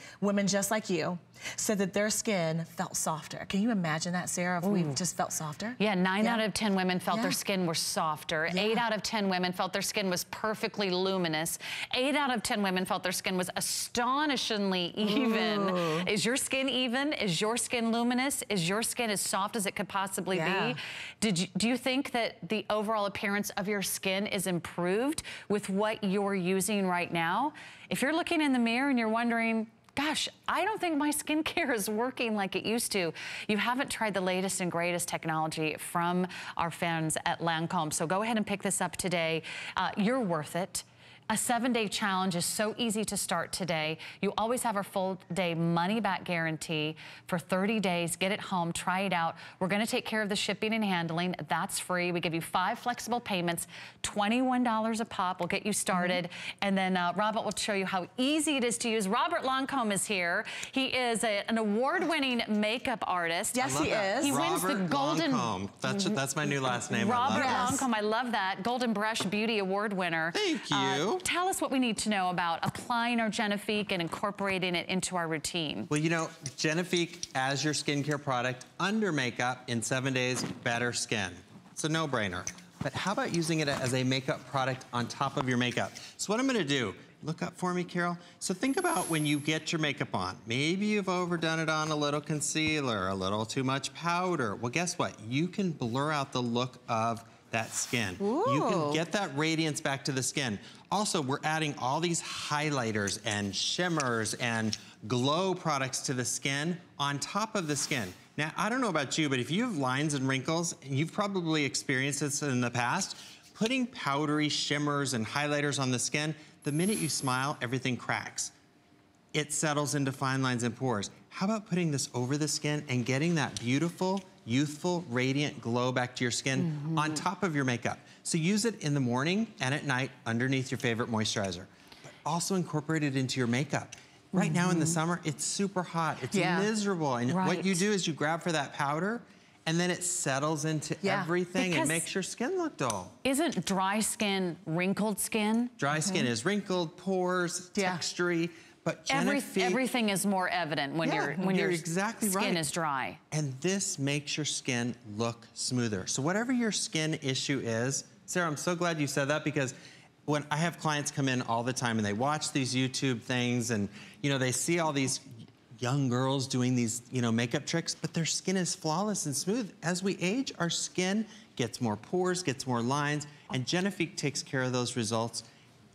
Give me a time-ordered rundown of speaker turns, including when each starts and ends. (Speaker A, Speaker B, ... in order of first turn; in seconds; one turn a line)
Speaker A: 0.2-6.4
Speaker B: 4.6-5.0
Speaker B: 5.8-66.2
Speaker A: 7.1-7.4
Speaker A: 8.5-8.8
Speaker A: 15.0-16.1
Speaker A: 20.3-20.8
Speaker A: 55.9-56.2
Speaker A: 63.5-64.4
Speaker C: 63.6-67.8
Speaker B: 66.9-75.9
Speaker A: 67.3-67.8
Speaker C: 70.3-71.2
Speaker C: 75.9-118.5
Speaker A: 98.2-99.0
Speaker C: 119.3-131.7
Speaker B: 126.6-127.2
Speaker C: 132.2-143.1
Speaker A: 134.4-134.8
Speaker A: 136.3-136.7
Speaker B: 137.3-137.8
Speaker B: 141.6-142.1
Speaker B: 143.2-145.7
Speaker C: 145.8-149.8
Speaker A: 146.0-146.3
Speaker B: 149.1-153.2
Speaker C: 151.0-152.6
Speaker C: 153.3-159.8
Speaker C: 160.3-165.3
Speaker C: 165.8-175.5